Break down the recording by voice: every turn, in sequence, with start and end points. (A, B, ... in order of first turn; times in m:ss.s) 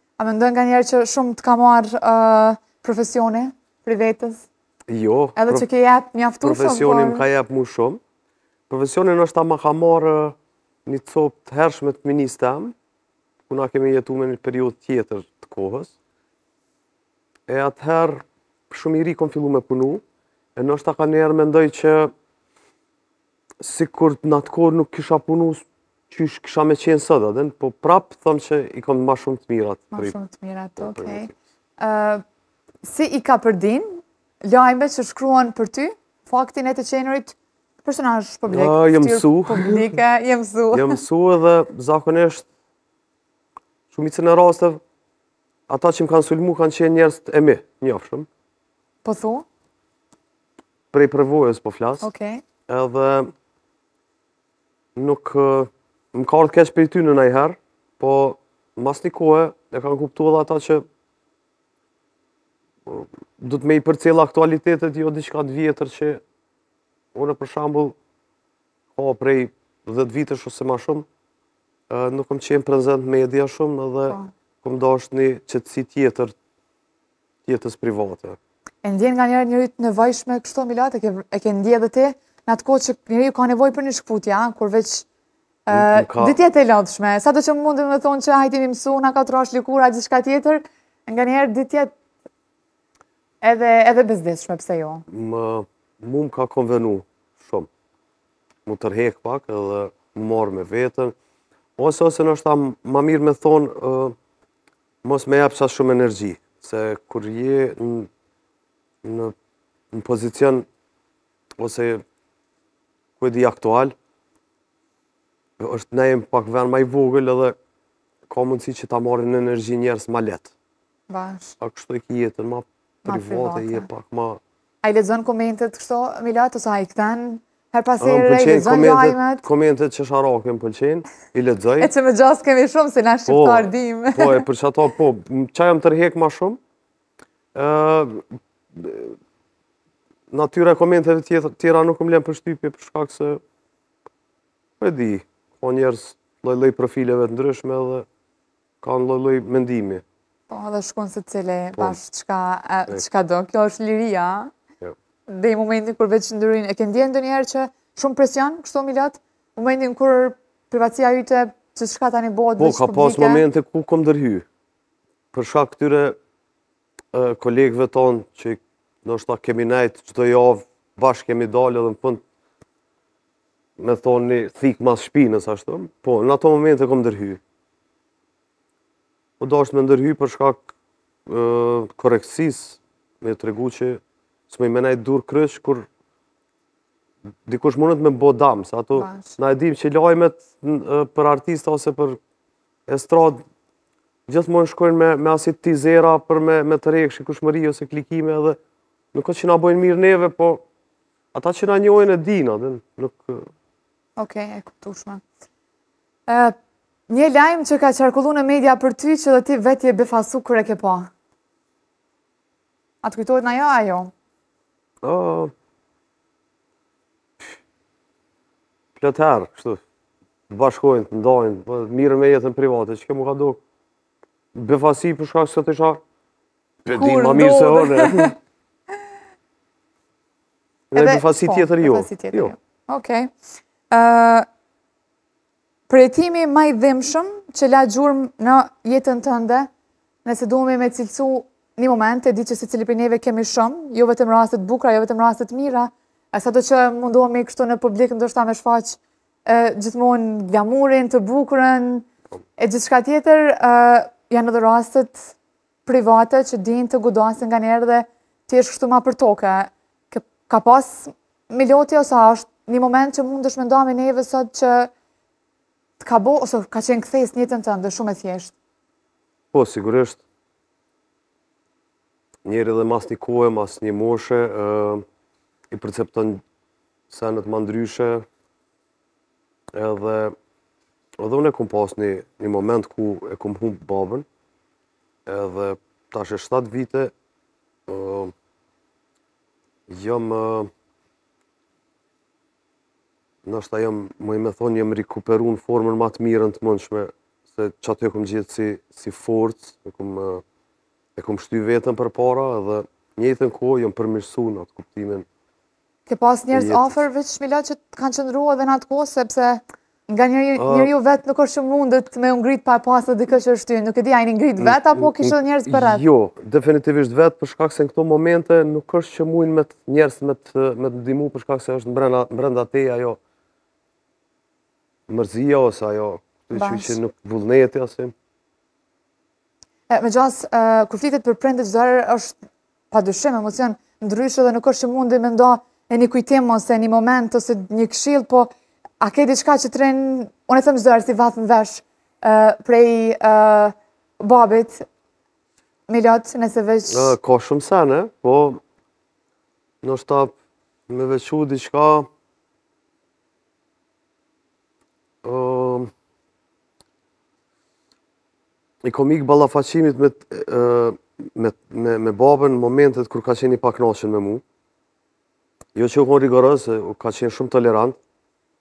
0:00.2-0:04.5 A
0:04.9-0:05.6 B
0:05.4-0:07.2 A
0:06.4-0:08.0 B
0:08.7-0:12.7 B
0:13.5-0:15.9 B
0:17.5-0:20.0 B
0:20.6-0:22.1 B
0:23.6-0:30.1 B
0:29.9-0:32.2 A
0:30.8-0:31.3 B
0:32.8-0:41.0 A
0:38.5-0:40.0 B
0:40.7-0:42.5 B
0:43.9-0:44.8 B
0:45.7-0:48.3 B
0:49.0-0:49.4 A
0:50.9-0:52.1 B
0:52.0-0:52.4 A
0:52.7-0:53.3 B
0:54.9-1:00.8 B
1:02.8-1:06.2 B
1:07.1-1:08.0 B
1:08.9-1:11.0 B
1:11.9-1:16.3 B
1:17.4-1:18.4 B
1:18.8-1:25.0 A
1:25.7-1:31.9 A
1:25.7-1:26.4 B
1:33.4-1:35.0 A
1:35.1-1:37.7 B
1:38.6-1:41.1 B
1:41.8-1:44.1 B
1:45.0-1:48.1 B
1:49.0-1:49.3 B
1:49.9-1:50.7 B
1:51.6-1:52.0 B
1:53.2-1:53.9 B
1:55.6-1:57.6 B
1:58.3-2:00.5 B
2:01.1-2:01.5 A
2:01.6-2:04.4 B
2:03.0-2:03.9 A
2:04.8-2:09.4 A
2:08.0-2:11.9 B
2:11.8-2:14.4 A
2:13.3-2:16.6 B
2:17.5-2:19.2 B
2:20.3-2:23.4 B
2:24.8-2:28.1 B
2:28.8-2:30.0 B
2:30.5-2:34.5 A
2:35.3-2:43.4 A
2:42.6-2:44.4 B
2:45.3-2:46.2 B
2:47.1-2:52.2 B
2:53.8-2:57.4 B
2:59.4-3:00.7 B
3:01.3-3:05.9 B
3:07.4-3:12.2 B
3:09.0-3:09.4 A
3:12.9-3:13.4 B
3:14.3-3:18.6 B
3:19.1-3:20.6 B
3:21.3-3:23.5 B
3:24.2-3:25.2 A
3:26.3-3:26.6 A
3:27.1-3:31.1 A
3:33.0-3:34.1 A
3:35.0-3:35.5 B
3:39.0-3:39.8 B
3:40.5-3:43.6 B
3:44.5-3:46.0 B
3:46.8-3:48.4 B
3:46.9-3:48.3 A
3:50.9-3:52.5 B
3:50.9-3:53.3 A
3:53.9-3:54.5 A
3:55.9-3:59.7 A
4:00.2-4:12.1 A
4:12.6-4:15.3 A
4:15.8-4:24.9 A
4:26.0-4:28.5 A
4:29.5-4:30.2 B
4:32.4-4:35.0 B
4:35.7-4:36.4 B
4:37.1-4:38.2 B
4:39.7-4:40.4 B
4:41.2-4:44.2 B
4:45.2-4:47.1 B
4:47.9-4:48.3 B
4:49.9-4:50.7 B
4:53.4-5:00.4 B
5:01.2-5:05.2 B
5:06.1-5:16.0 A
5:06.5-5:07.0 B
5:10.6-5:10.9 B
5:14.6-5:23.2 B
5:25.1-5:28.1 B
5:26.5-5:27.0 A
5:29.9-5:32.4 A
5:32.9-5:44.8 A
5:45.9-5:47.1 A
5:46.9-5:48.6 B
5:49.8-5:50.3 B
5:50.9-5:52.1 B
5:55.2-5:55.9 B
5:58.8-6:04.4 B
6:05.7-6:08.0 B